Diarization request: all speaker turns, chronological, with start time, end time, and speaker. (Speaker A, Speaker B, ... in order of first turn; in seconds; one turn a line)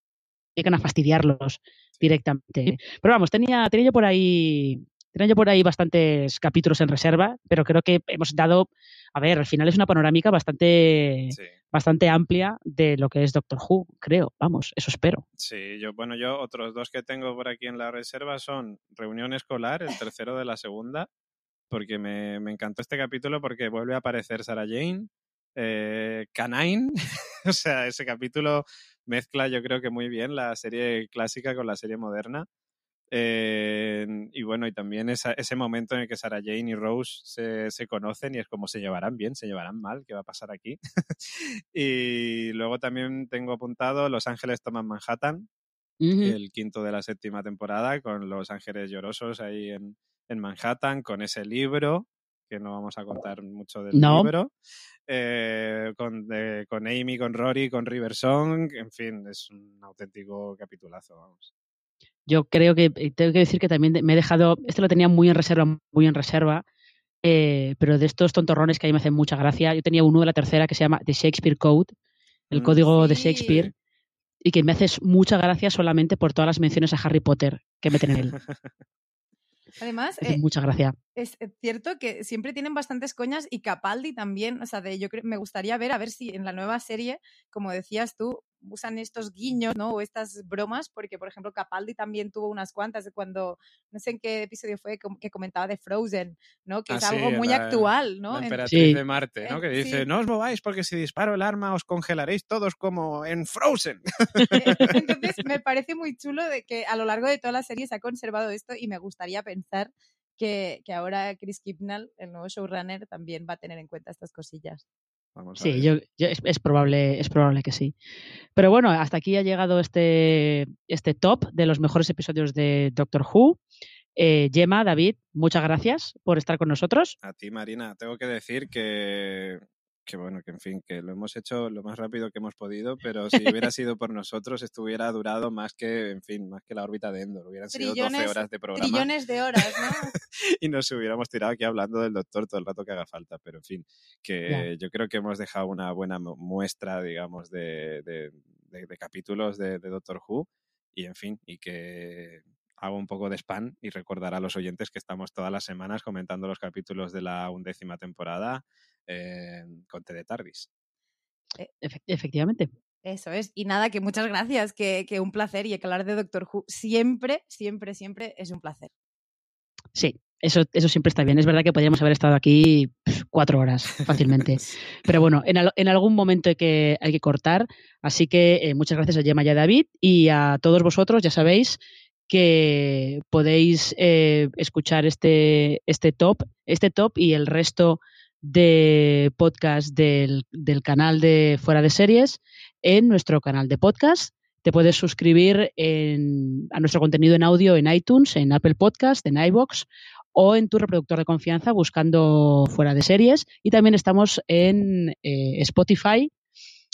Speaker A: 0.6-15.2
Speaker B: 15.4-21.1
Speaker B: 21.7-26.9
Speaker B: 27.4-32.5
Speaker B: 33.1-45.5
Speaker A: 46.0-46.4
Speaker B: 46.2-54.5
Speaker A: 53.9-54.3
Speaker B: 55.1-61.5
Speaker A: 62.3-66.6
Speaker A: 67.2-71.9
Speaker A: 72.5-73.7
Speaker B: 72.5-72.8
Speaker C: 72.9-73.6
Speaker B: 73.5-73.7
Speaker A: 74.4-78.3
Speaker C: 79.8-80.4
Speaker A: 80.2-80.9
Speaker C: 81.2-98.8
Speaker B: 96.9-105.0
Speaker A: 98.7-99.0
Speaker C: 99.4-100.0
Speaker A: 104.4-104.9
Speaker C: 104.6-114.8
Speaker B: 115.3-115.9
Speaker A: 115.6-117.9
Speaker A: 118.5-123.6
Speaker A: 124.2-127.2
Speaker B: 127.2-140.1
Speaker C: 137.7-140.1
Speaker B: 140.6-160.7
Speaker A: 161.8-162.7
Speaker C: 163.0-168.9
Speaker A: 169.9-206.3